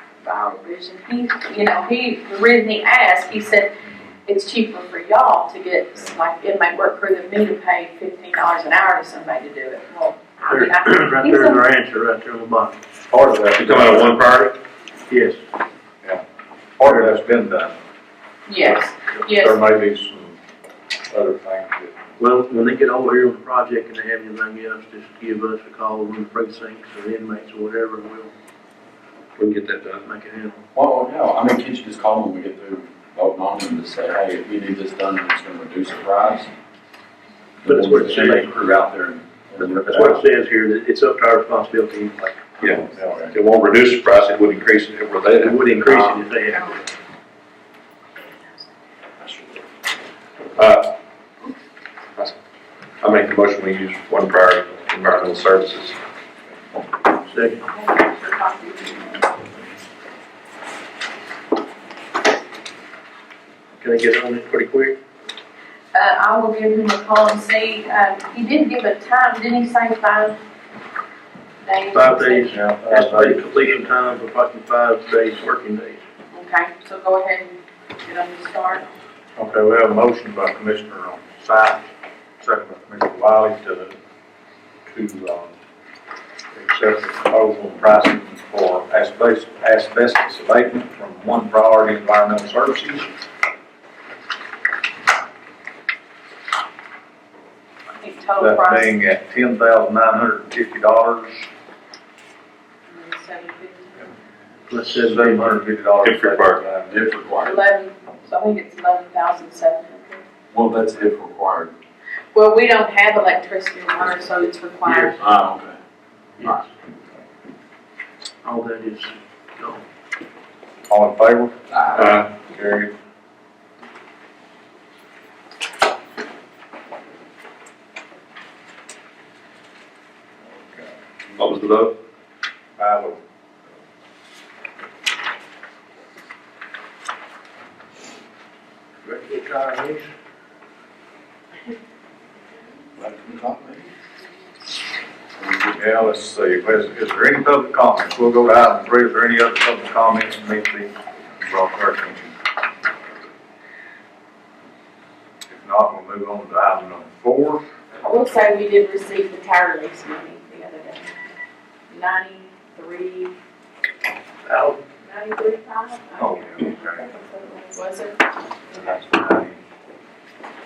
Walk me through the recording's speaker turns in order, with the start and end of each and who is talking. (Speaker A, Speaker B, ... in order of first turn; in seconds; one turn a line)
Speaker A: 0.2-3.7
Speaker A: 4.3-11.7
Speaker B: 10.5-12.8
Speaker C: 13.1-14.2
Speaker D: 13.5-14.5
Speaker B: 15.1-15.4
Speaker C: 16.8-17.7
Speaker A: 18.5-19.6
Speaker C: 19.2-20.4
Speaker C: 21.1-21.9
Speaker B: 22.2-28.3
Speaker D: 29.4-30.0
Speaker B: 30.1-30.6
Speaker E: 30.8-36.5
Speaker E: 37.6-40.2
Speaker B: 37.6-38.5
Speaker B: 39.8-42.5
Speaker D: 42.6-46.2
Speaker C: 42.9-43.3
Speaker B: 45.4-46.9
Speaker D: 50.6-50.9
Speaker D: 53.0-56.0
Speaker B: 57.3-57.6
Speaker A: 57.6-59.6
Speaker B: 63.8-65.0
Speaker A: 65.9-70.4
Speaker A: 71.6-72.5
Speaker B: 71.9-76.0
Speaker C: 72.5-74.2
Speaker A: 76.3-78.8
Speaker C: 79.4-81.9
Speaker C: 82.4-83.9
Speaker C: 84.9-85.5
Speaker C: 86.5-93.1
Speaker A: 97.9-98.9
Speaker C: 98.4-101.5
Speaker A: 102.9-104.1
Speaker B: 104.7-105.6
Speaker C: 105.0-106.9
Speaker D: 106.0-106.6
Speaker E: 106.9-107.6
Speaker A: 107.4-110.2
Speaker E: 110.5-111.7
Speaker A: 112.3-115.2
Speaker B: 114.9-115.1
Speaker E: 115.2-115.8
Speaker B: 118.4-119.8
Speaker C: 120.9-122.9
Speaker E: 121.7-122.0
Speaker D: 122.0-122.3
Speaker D: 131.4-131.9
Speaker C: 132.8-133.2
Speaker B: 139.1-140.1
Speaker E: 143.0-143.9
Speaker E: 145.4-145.7
Speaker C: 145.7-152.3
Speaker C: 155.5-157.6
Speaker A: 158.0-161.2
Speaker A: 161.9-163.3
Speaker B: 164.5-164.8
Speaker A: 165.0-169.0
Speaker C: 166.2-167.1
Speaker C: 168.7-169.6